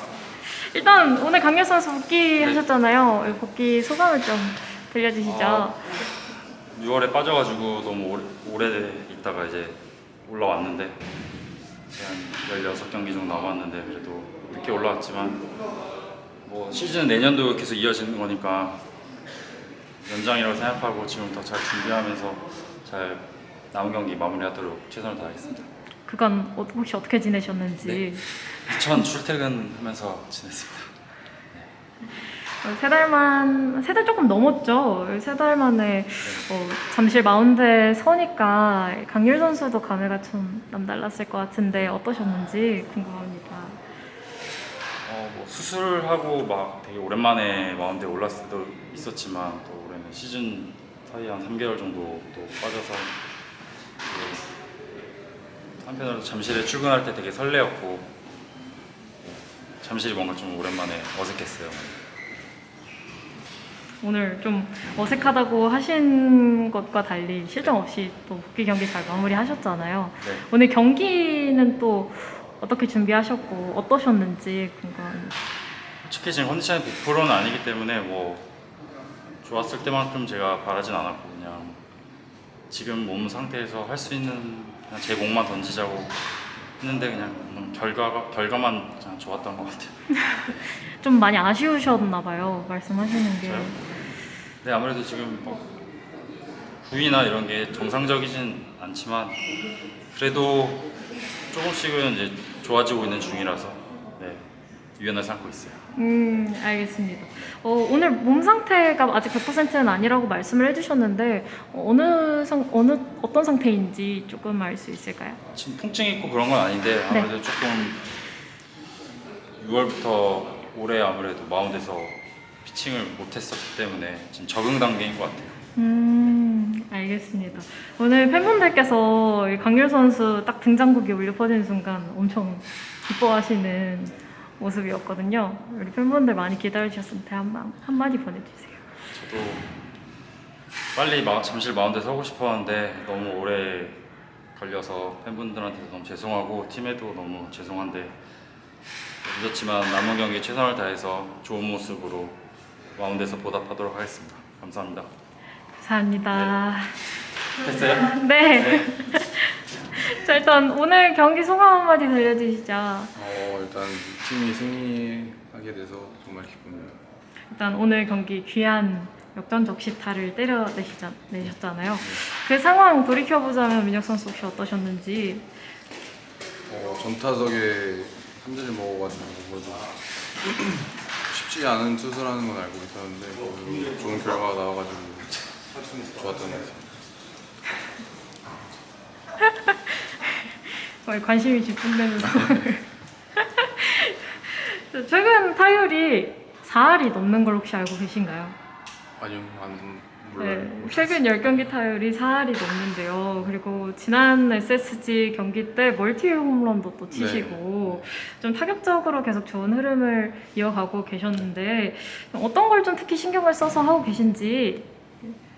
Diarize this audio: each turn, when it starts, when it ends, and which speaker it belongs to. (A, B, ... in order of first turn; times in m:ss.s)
0:00.5-0:05.8 A
0:05.2-0:05.8 B
0:06.7-0:11.0 B
0:11.9-0:15.5 B
0:16.4-0:18.8 B
0:20.0-0:25.7 B
0:26.1-0:28.2 A
0:27.8-0:30.9 B
0:32.6-0:43.8 A
0:45.0-0:53.1 B
0:54.0-0:54.4 B
0:55.8-0:58.1 B
0:59.8-1:02.0 B
1:04.0-1:15.4 A
1:16.1-1:18.5 B
1:19.4-1:21.8 B
1:22.7-1:26.2 B
1:26.8-1:30.6 B
1:30.9-1:33.8 A
1:33.4-1:33.8 B
1:34.6-1:35.7 B
1:36.8-1:39.4 B
1:40.1-1:40.9 B
1:41.5-1:45.8 B
1:45.9-1:55.4 A
1:55.5-1:58.1 B
1:59.6-2:05.6 B
2:05.8-2:18.9 A
2:19.1-2:19.7 B
2:21.0-2:24.0 B
2:24.6-2:28.2 B
2:29.2-2:32.4 B
2:33.0-2:35.1 B
2:35.8-2:37.0 A
2:37.6-2:38.9 B
2:37.9-2:43.1 A
2:43.2-2:47.0 C
2:47.5-2:55.5 A
2:56.7-3:05.3 C
3:06.0-3:06.9 C
3:09.4-3:12.8 A
3:12.3-3:12.7 C
3:13.4-3:18.6 A
3:19.2-3:21.6 C
3:20.4-3:35.3 A
3:27.1-3:28.1 C